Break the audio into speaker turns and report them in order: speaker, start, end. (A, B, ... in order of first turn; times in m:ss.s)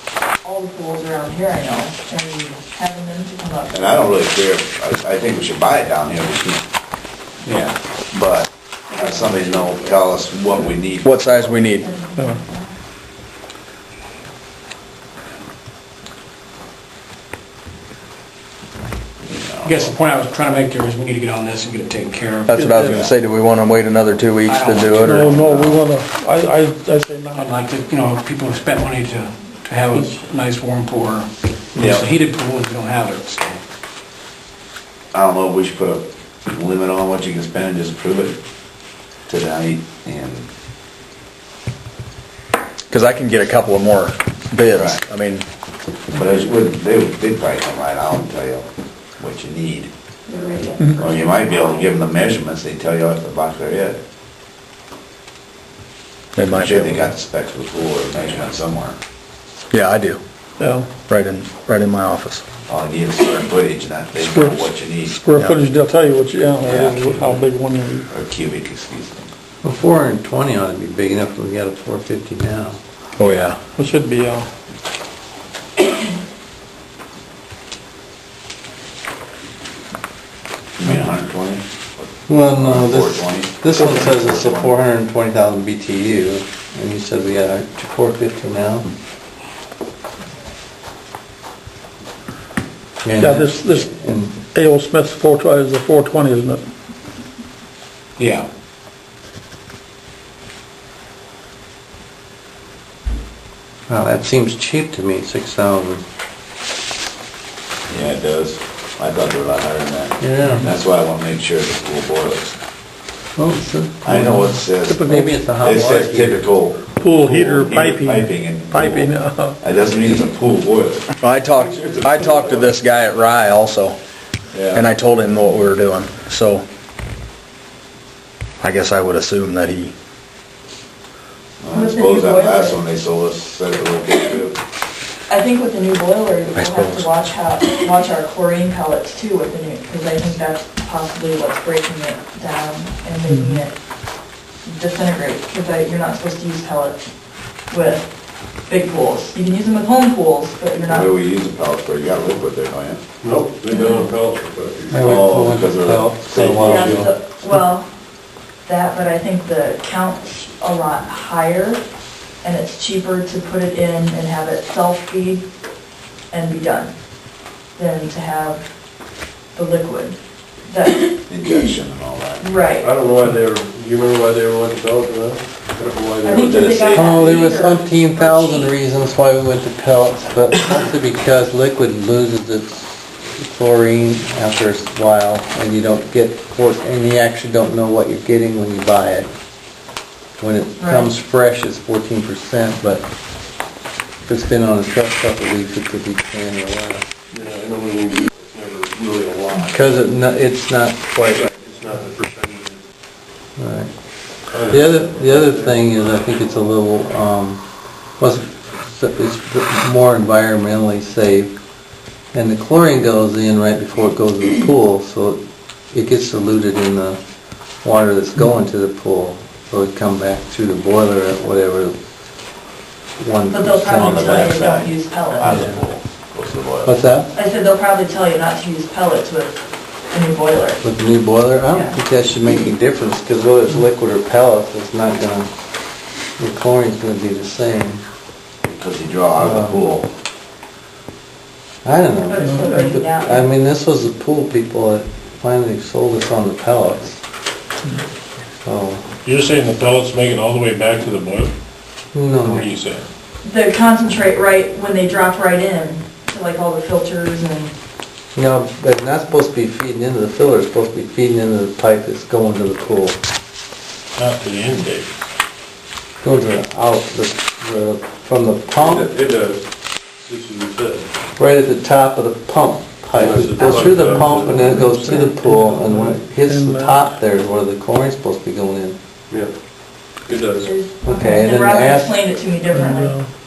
0:00.4-0:04.1 A
0:03.7-0:06.6 B
0:07.4-0:07.8 C
0:08.1-0:11.8 B
0:11.0-0:11.9 D
0:11.8-0:12.8 A
0:19.2-0:20.0 B
0:19.6-0:22.6 C
0:22.5-0:25.8 D
0:22.5-0:23.0 E
0:22.8-0:23.1 B
0:24.5-0:25.0 C
0:25.0-0:27.7 E
0:27.3-0:33.6 C
0:31.8-0:32.1 B
0:35.1-0:38.4 B
0:39.3-0:40.5 B
0:42.9-0:45.4 D
0:44.7-0:45.0 B
0:46.1-0:48.7 B
0:49.2-0:49.9 B
0:50.3-0:51.0 A
0:51.0-0:54.0 B
0:56.4-0:57.1 D
0:56.5-0:59.0 B
0:59.7-1:00.2 D
1:00.6-1:00.9 E
1:01.0-1:02.4 D
1:02.7-1:05.2 B
1:04.2-1:08.1 E
1:06.6-1:07.4 B
1:08.1-1:09.3 B
1:09.6-1:12.8 F
1:13.2-1:13.6 D
1:13.8-1:14.5 E
1:20.8-1:24.8 B
1:22.3-1:28.9 F
1:33.0-1:34.4 F
1:33.2-1:33.9 E
1:34.5-1:36.6 E
1:38.2-1:38.5 C
1:43.9-1:46.0 F
1:47.9-1:52.6 B
1:50.2-1:50.7 F
1:53.4-1:56.4 F
1:54.0-2:01.1 B
1:54.9-1:56.0 E
1:56.9-1:59.6 E
2:01.2-2:04.0 D
2:04.5-2:04.9 B
2:04.7-2:06.6 D
2:08.6-2:09.9 D
2:11.6-2:14.6 B
2:11.7-2:12.8 A
2:15.3-2:23.7 A
2:16.6-2:17.1 D
2:23.3-2:23.6 E
2:24.6-2:27.0 A
2:27.7-2:28.0 A
2:28.7-2:31.1 A
2:30.9-2:33.0 B
2:33.2-2:35.2 G
2:33.7-2:34.0 A
2:34.9-2:37.1 F
2:35.0-2:37.1 B
2:36.7-2:37.9 A
2:38.6-2:41.8 A
2:42.4-2:45.4 A
2:46.3-2:46.9 A
2:47.8-2:48.6 A
2:49.5-2:51.2 A
2:51.3-2:52.5 B
2:52.4-2:52.9 A
2:52.8-2:56.9 G
2:56.2-2:58.7 A
2:56.3-2:57.2 B
2:56.9-3:09.3 F
3:10.4-3:13.1 F
3:10.8-3:11.1 A
3:14.3-3:17.0 F
3:17.3-3:20.1 G
3:19.6-3:21.5 F
3:21.2-3:22.8 G
3:23.6-3:23.9 F
3:24.5-3:25.8 G
3:24.6-3:27.6 F
3:28.2-3:31.6 F
3:32.3-3:35.4 F
3:35.9-3:37.2 F
3:37.8-3:42.0 F
3:43.2-3:44.7 F
3:43.5-3:45.5 A
3:44.0-3:47.0 B
3:45.4-3:45.8 F
3:46.8-3:47.3 F
3:47.3-3:50.8 A
3:50.8-3:55.5 F
3:51.7-3:52.0 A
3:56.4-3:58.0 F
3:58.6-4:00.1 B
3:59.4-3:59.9 F
4:01.8-4:07.2 F
4:02.2-4:03.4 A
4:02.5-4:02.9 E
4:08.6-4:09.0 F
4:09.2-4:11.5 G
4:12.1-4:12.7 F
4:12.4-4:13.1 G
4:13.4-4:17.7 A
4:18.4-4:23.2 F
4:24.2-4:25.2 G
4:26.2-4:29.1 F
4:28.8-4:29.6 G
4:30.2-4:31.1 G
4:31.4-4:39.0 F
4:33.1-4:35.3 G
4:34.9-4:37.1 E
4:40.3-4:40.7 G
4:40.6-4:43.2 A
4:41.1-4:42.2 F
4:42.7-4:43.3 E